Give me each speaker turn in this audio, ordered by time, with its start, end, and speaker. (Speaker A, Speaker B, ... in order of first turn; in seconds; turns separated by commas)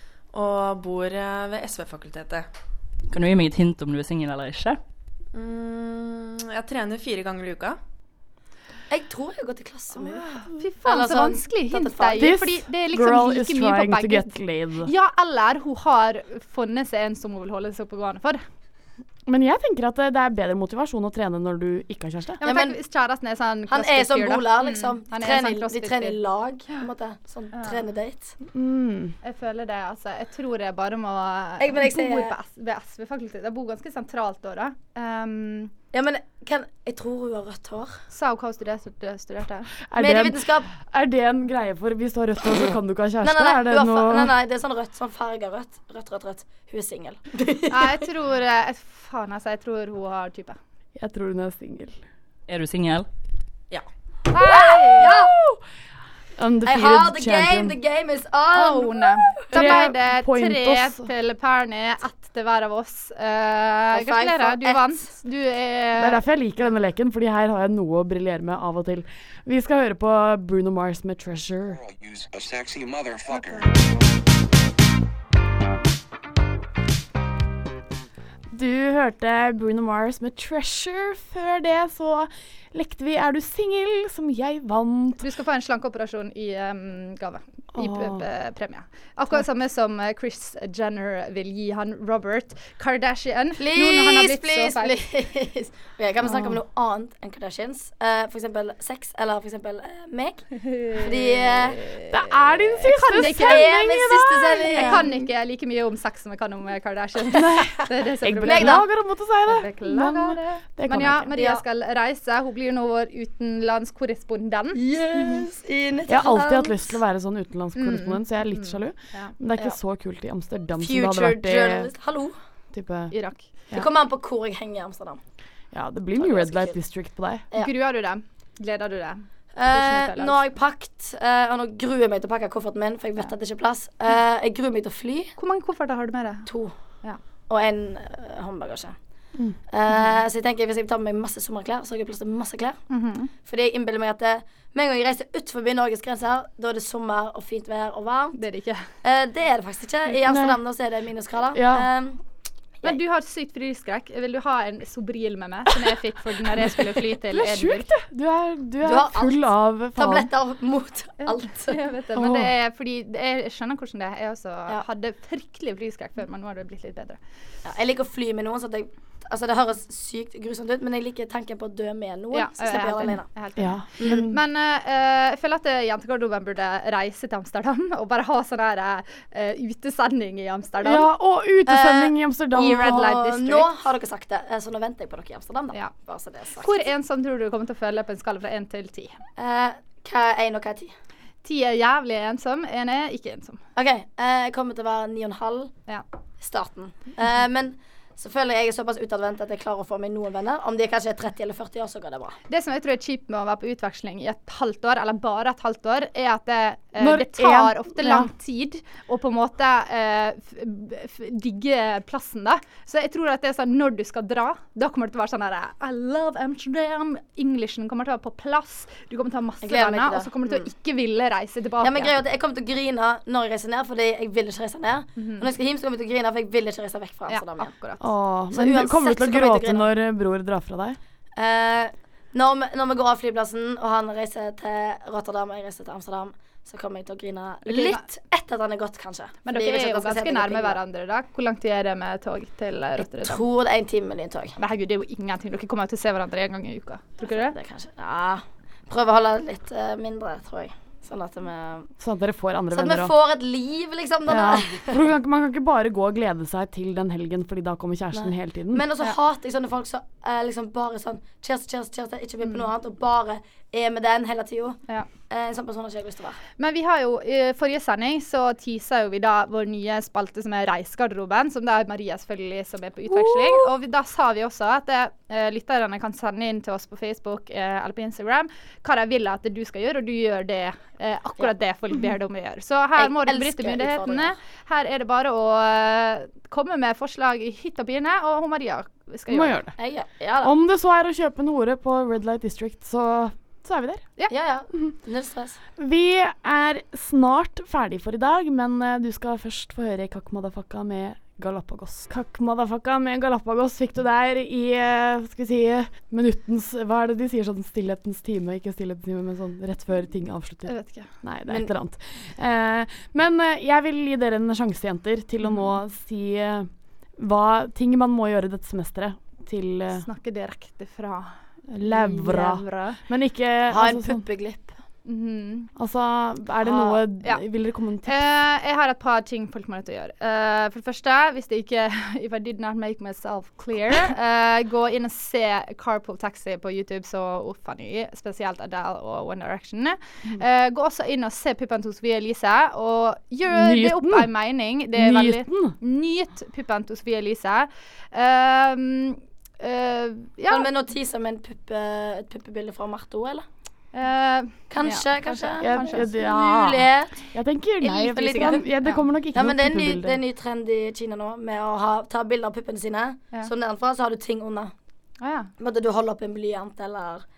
Speaker A: 0.3-2.5, Speaker B: 3.1-4.6, Speaker A: 5.3-7.8, Speaker C: 8.9-10.2, Speaker D: 10.4-18.4, Speaker C: 10.8-12.4, Speaker E: 12.2-14.9, Speaker E: 19.3-22.4, Speaker D: 22.4-26.2, Speaker C: 22.4-22.8, Speaker C: 23.7-28.3, Speaker E: 28.5-29.1, Speaker D: 29.2-35.7, Speaker C: 31.6-32.3, Speaker C: 35.9-37.9, Speaker D: 38.1-39.7, Speaker E: 39.9-44.3, Speaker C: 40.0-40.7, Speaker C: 43.2-48.0, Speaker D: 47.7-50.6, Speaker E: 51.0-52.0, Speaker B: 52.5-53.0, Speaker D: 54.3-55.2, Speaker E: 54.4-55.6, Speaker C: 54.4-55.3, Speaker E: 56.4-57.8, Speaker C: 56.6-59.7, Speaker D: 58.5-66.2, Speaker E: 59.5-61.1, Speaker C: 63.9-65.1, Speaker E: 66.0-71.9, Speaker D: 73.3-73.6, Speaker E: 78.5-85.2, Speaker D: 85.2-95.0, Speaker E: 87.8-88.2, Speaker C: 93.6-102.0, Speaker E: 96.2-96.6, Speaker D: 100.8-101.5, Speaker E: 102.1-105.2, Speaker D: 102.8-108.9, Speaker C: 103.1-105.0, Speaker E: 107.3-111.3, Speaker C: 108.4-108.8, Speaker D: 109.5-114.8, Speaker C: 111.3-111.6, Speaker C: 114.7-116.9, Speaker E: 116.1-121.9, Speaker D: 117.8-119.3, Speaker C: 120.8-122.3, Speaker E: 122.7-123.1, Speaker D: 123.1-123.5, Speaker C: 123.7-125.2, Speaker E: 125.7-127.5, Speaker C: 126.2-126.8, Speaker D: 127.5-130.4, Speaker C: 129.6-135.3, Speaker D: 135.4-136.5, Speaker C: 136.4-136.7, Speaker C: 137.5-138.9, Speaker C: 139.7-142.8, Speaker D: 142.9-143.3, Speaker C: 143.4-148.4, Speaker D: 148.3-148.8, Speaker C: 149.0-152.2, Speaker E: 150.2-150.6, Speaker E: 151.5-151.9, Speaker D: 152.8-157.8, Speaker E: 157.2-160.3, Speaker C: 158.8-161.8, Speaker D: 161.2-167.2, Speaker E: 162.1-162.5, Speaker C: 167.6-173.3, Speaker D: 172.3-181.1, Speaker E: 173.6-174.3, Speaker C: 174.0-174.3, Speaker E: 180.8-183.1, Speaker C: 181.7-186.8, Speaker D: 182.6-183.7, Speaker D: 186.6-189.2, Speaker C: 189.4-190.9, Speaker D: 191.4-193.6, Speaker C: 193.8-195.7, Speaker C: 196.4-202.3, Speaker D: 202.5-222.1, Speaker E: 207.0-208.3, Speaker C: 219.6-220.7, Speaker C: 221.8-227.7, Speaker D: 225.2-225.5, Speaker D: 227.3-228.1, Speaker E: 228.0-231.0, Speaker C: 228.5-229.9, Speaker C: 231.3-240.8, Speaker D: 237.6-238.0, Speaker D: 239.4-243.4, Speaker C: 243.0-244.5, Speaker D: 244.6-247.6, Speaker C: 247.2-251.9, Speaker E: 252.0-253.1, Speaker C: 252.7-255.0, Speaker E: 254.3-258.8, Speaker C: 258.1-266.4, Speaker D: 266.6-289.6, Speaker C: 283.0-284.3, Speaker E: 289.3-289.7, Speaker C: 289.8-290.5, Speaker E: 290.4-294.0, Speaker C: 294.3-295.6, Speaker E: 295.8-320.1, Speaker D: 310.6-311.1, Speaker D: 320.0-323.0, Speaker E: 321.7-324.2, Speaker C: 323.7-324.7, Speaker D: 325.0-325.7, Speaker E: 325.8-328.2, Speaker D: 326.6-327.4, Speaker D: 328.0-350.7, Speaker E: 343.5-344.3, Speaker E: 344.9-345.7, Speaker C: 350.5-353.4, Speaker D: 353.9-356.0, Speaker C: 354.7-357.1, Speaker E: 355.6-360.2, Speaker C: 357.8-358.7, Speaker C: 359.3-364.7, Speaker D: 365.2-365.5, Speaker C: 365.6-367.2